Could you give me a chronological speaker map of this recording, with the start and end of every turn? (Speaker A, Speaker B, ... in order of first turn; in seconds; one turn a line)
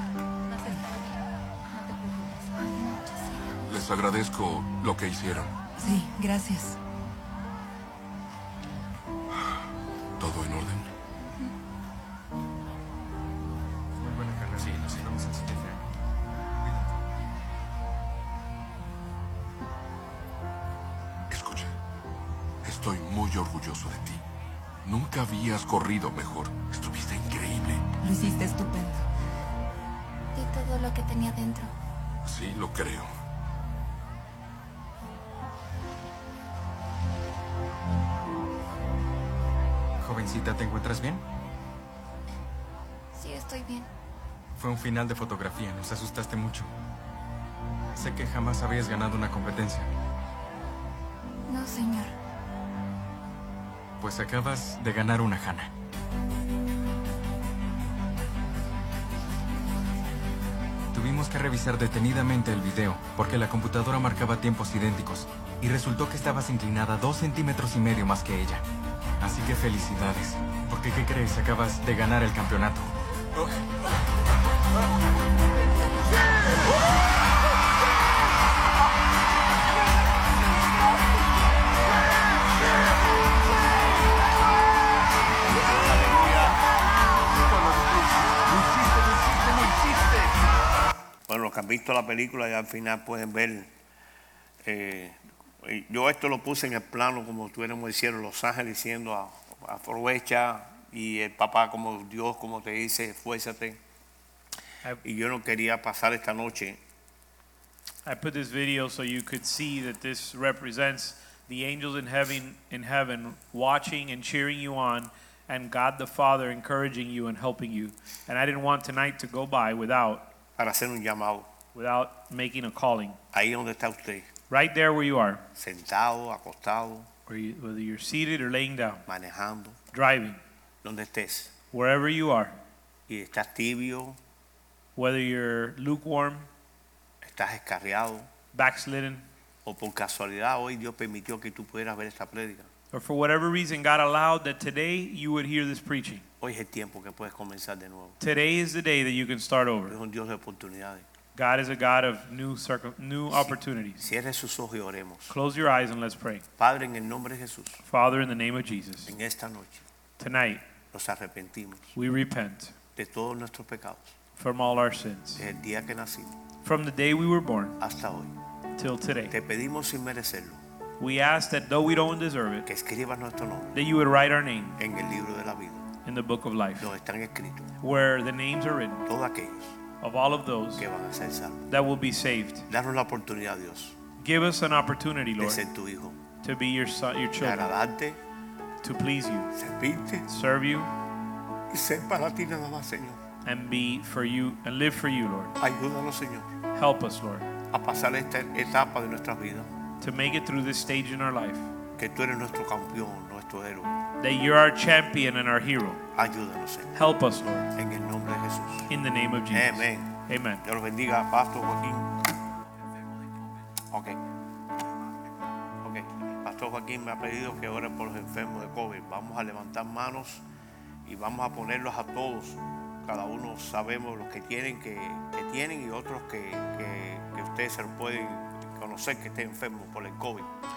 Speaker A: 0.6-3.5
Speaker B: 3.7-5.5
Speaker C: 5.8-6.8
Speaker B: 10.2-10.9
Speaker D: 14.0-15.8
Speaker D: 16.6-16.9
Speaker B: 21.3-21.7
Speaker B: 22.6-24.2
Speaker B: 24.8-27.8
Speaker C: 28.0-29.0
Speaker A: 30.3-31.7
Speaker B: 32.2-33.1
Speaker D: 40.0-41.2
Speaker A: 43.1-43.9
Speaker D: 44.6-46.7
Speaker D: 48.0-49.9
Speaker A: 51.5-52.1
Speaker D: 54.0-55.7
Speaker D: 60.9-68.6
Speaker D: 69.2-72.9
Speaker E: 85.6-86.6
Speaker E: 91.3-93.7
Speaker E: 94.6-103.8
Speaker E: 105.0-106.8
Speaker F: 108.1-120.3
Speaker E: 120.6-121.5
Speaker F: 121.7-123.2
Speaker E: 123.3-124.3
Speaker F: 124.5-125.4
Speaker E: 125.5-127.1
Speaker F: 127.3-129.1
Speaker E: 129.1-129.8
Speaker F: 129.9-130.4
Speaker E: 130.8-131.5
Speaker F: 131.7-132.6
Speaker E: 133.1-134.2
Speaker F: 135.0-136.5
Speaker E: 137.2-138.3
Speaker F: 138.5-139.2
Speaker E: 139.7-142.7
Speaker F: 142.9-146.2
Speaker E: 146.4-148.2
Speaker F: 148.2-150.0
Speaker E: 149.9-151.1
Speaker F: 151.4-154.1
Speaker E: 153.3-155.3
Speaker F: 155.3-156.4
Speaker E: 156.6-157.8
Speaker F: 157.8-159.1
Speaker E: 159.1-159.8
Speaker F: 160.2-160.6
Speaker E: 160.9-161.9
Speaker F: 161.9-162.8
Speaker E: 163.0-164.1
Speaker F: 164.4-165.4
Speaker E: 165.4-166.4
Speaker F: 166.6-167.8
Speaker E: 167.8-168.4
Speaker F: 168.8-169.3
Speaker E: 169.3-170.6
Speaker F: 171.0-172.7
Speaker E: 172.7-173.8
Speaker F: 173.7-174.8
Speaker E: 174.8-175.8
Speaker F: 176.1-176.9
Speaker E: 176.8-177.7
Speaker F: 177.8-179.1
Speaker E: 179.1-179.8
Speaker F: 180.0-180.9
Speaker E: 180.8-181.7
Speaker F: 181.7-182.7
Speaker E: 182.7-183.9
Speaker F: 184.2-185.6
Speaker E: 185.4-186.2
Speaker F: 186.4-187.8
Speaker E: 187.4-188.2
Speaker F: 188.8-189.5
Speaker E: 189.5-190.3
Speaker F: 190.3-190.9
Speaker E: 191.7-193.2
Speaker F: 193.4-195.6
Speaker E: 195.6-196.5
Speaker F: 196.8-197.5
Speaker E: 197.7-199.7
Speaker F: 200.0-201.7
Speaker E: 202.0-204.0
Speaker F: 204.2-206.0
Speaker E: 206.2-207.0
Speaker F: 206.9-207.7
Speaker E: 207.8-208.9
Speaker F: 208.9-210.6
Speaker E: 209.5-210.1
Speaker E: 210.6-212.2
Speaker E: 213.9-214.2
Speaker E: 215.8-220.4
Speaker E: 221.1-230.5